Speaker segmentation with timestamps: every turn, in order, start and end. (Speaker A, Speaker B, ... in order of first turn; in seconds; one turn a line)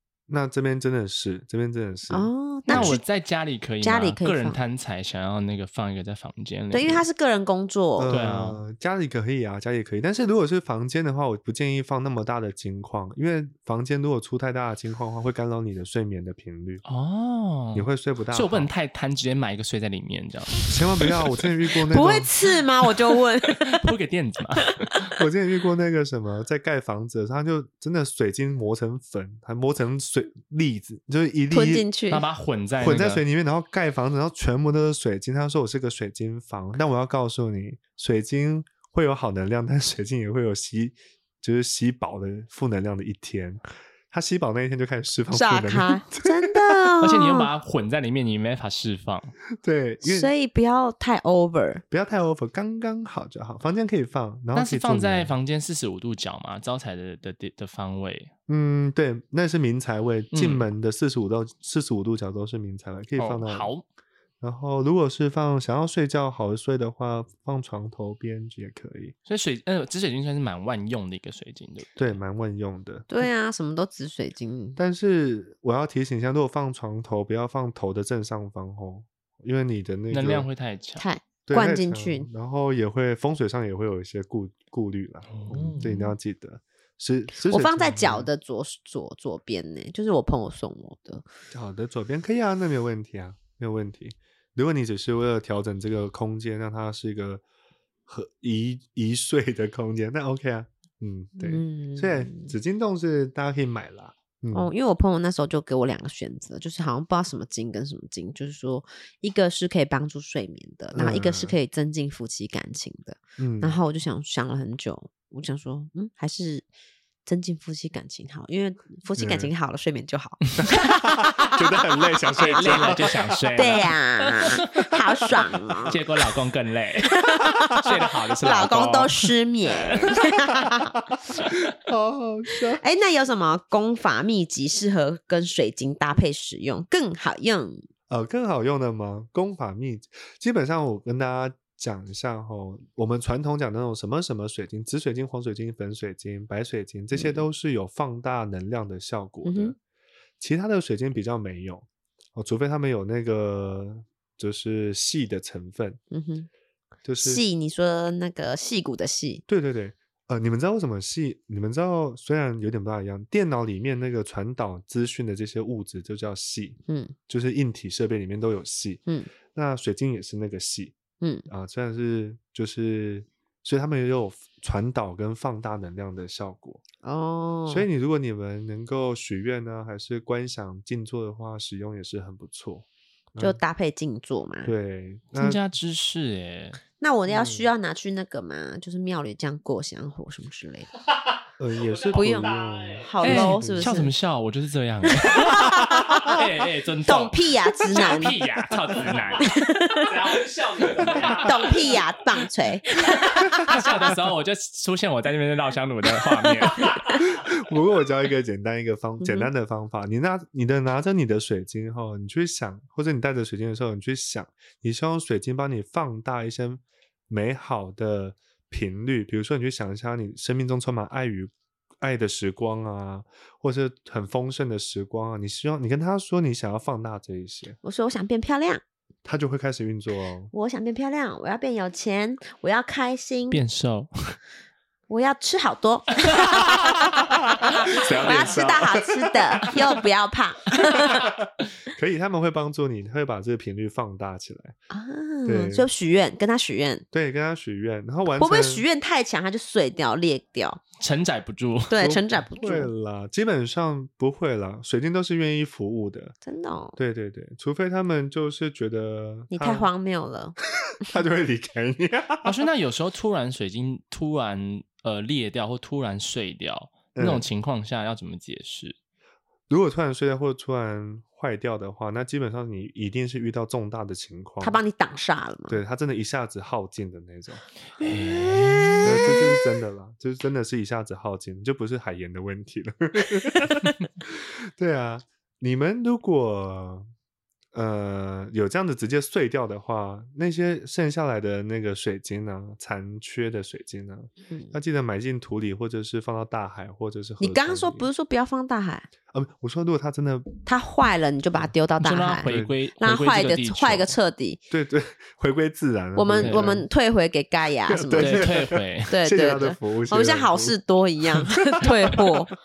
Speaker A: 0.3-3.0
Speaker B: 2.1-3.0
Speaker C: 2.7-7.0
Speaker B: 3.8-4.6
Speaker B: 6.7-8.2
Speaker A: 8.0-16.8
Speaker C: 8.1-8.6
Speaker C: 16.9-20.7
Speaker A: 17.7-18.7
Speaker A: 20.7-22.3
Speaker B: 21.9-23.9
Speaker C: 23.6-25.0
Speaker A: 25.2-31.9
Speaker B: 31.5-32.2
Speaker C: 32.1-33.2
Speaker A: 32.8-46.9
Speaker B: 45.3-47.5
Speaker C: 47.0-49.4
Speaker A: 49.6-50.3
Speaker B: 50.0-51.8
Speaker A: 51.9-55.3
Speaker C: 54.5-58.3
Speaker A: 58.5-63.7
Speaker C: 60.3-60.6
Speaker C: 63.2-63.9
Speaker A: 64.4-69.1
Speaker C: 69.3-72.1
Speaker A: 72.0-73.1
Speaker B: 73.1-74.8
Speaker A: 74.8-80.5
Speaker C: 80.1-81.0
Speaker B: 81.0-82.3
Speaker A: 81.5-88.3
Speaker C: 85.3-86.1
Speaker B: 87.5-91.2
Speaker A: 91.5-97.4
Speaker A: 98.1-104.7
Speaker B: 101.4-102.5
Speaker B: 104.5-116.7
Speaker A: 110.9-111.5
Speaker A: 113.4-113.8
Speaker B: 117.3-121.4
Speaker A: 119.2-119.5
Speaker A: 120.6-123.7
Speaker B: 122.4-126.0
Speaker C: 122.4-125.0
Speaker C: 125.9-129.1
Speaker B: 127.2-127.8
Speaker B: 128.4-130.9
Speaker A: 130.6-132.8
Speaker B: 132.8-137.8
Speaker A: 138.1-149.8
Speaker B: 147.1-147.4
Speaker B: 149.4-149.8
Speaker A: 150.4-156.0
Speaker B: 156.1-156.5
Speaker A: 157.1-157.4
Speaker B: 157.2-159.4
Speaker A: 159.5-169.0
Speaker B: 166.9-167.1
Speaker A: 169.5-171.0
Speaker B: 171.2-171.5
Speaker A: 171.5-176.8
Speaker B: 177.0-177.9
Speaker A: 177.7-183.6
Speaker B: 183.4-184.7
Speaker A: 184.6-185.6
Speaker C: 185.4-186.8
Speaker B: 187.0-190.9
Speaker A: 187.3-187.7
Speaker A: 191.6-193.9
Speaker D: 191.9-193.2
Speaker B: 192.1-194.1
Speaker C: 193.2-199.5
Speaker B: 195.2-196.4
Speaker B: 197.1-198.4
Speaker D: 198.0-198.3
Speaker D: 198.9-202.1
Speaker B: 199.4-200.2
Speaker B: 201.4-203.8
Speaker C: 203.6-207.1
Speaker D: 206.8-207.2
Speaker A: 207.2-227.8
Speaker B: 209.2-209.5
Speaker B: 227.8-228.8
Speaker A: 229.2-230.5
Speaker B: 230.5-233.6
Speaker C: 233.5-234.4
Speaker B: 235.1-237.0
Speaker A: 237.6-239.8
Speaker B: 237.7-241.3
Speaker A: 240.8-244.8
Speaker B: 244.9-247.1
Speaker A: 245.4-245.9
Speaker A: 247.1-248.9
Speaker B: 248.4-250.8
Speaker C: 251.0-252.0
Speaker B: 251.9-252.9
Speaker A: 252.0-256.4
Speaker B: 256.4-257.0
Speaker A: 257.0-259.9
Speaker B: 259.5-260.6
Speaker A: 261.0-262.6
Speaker C: 262.4-269.0
Speaker A: 267.1-267.5
Speaker A: 269.7-274.8
Speaker B: 274.6-275.8
Speaker A: 275.7-277.6
Speaker C: 278.0-279.4
Speaker B: 278.0-279.4
Speaker A: 279.0-287.1
Speaker A: 287.7-298.1
Speaker B: 297.4-299.1
Speaker A: 299.3-300.6
Speaker B: 300.7-304.6
Speaker C: 302.0-304.1
Speaker A: 302.5-302.8
Speaker A: 304.7-306.9
Speaker B: 306.1-312.5
Speaker C: 306.4-306.7
Speaker A: 307.9-310.8
Speaker C: 308.1-309.2
Speaker A: 311.3-312.4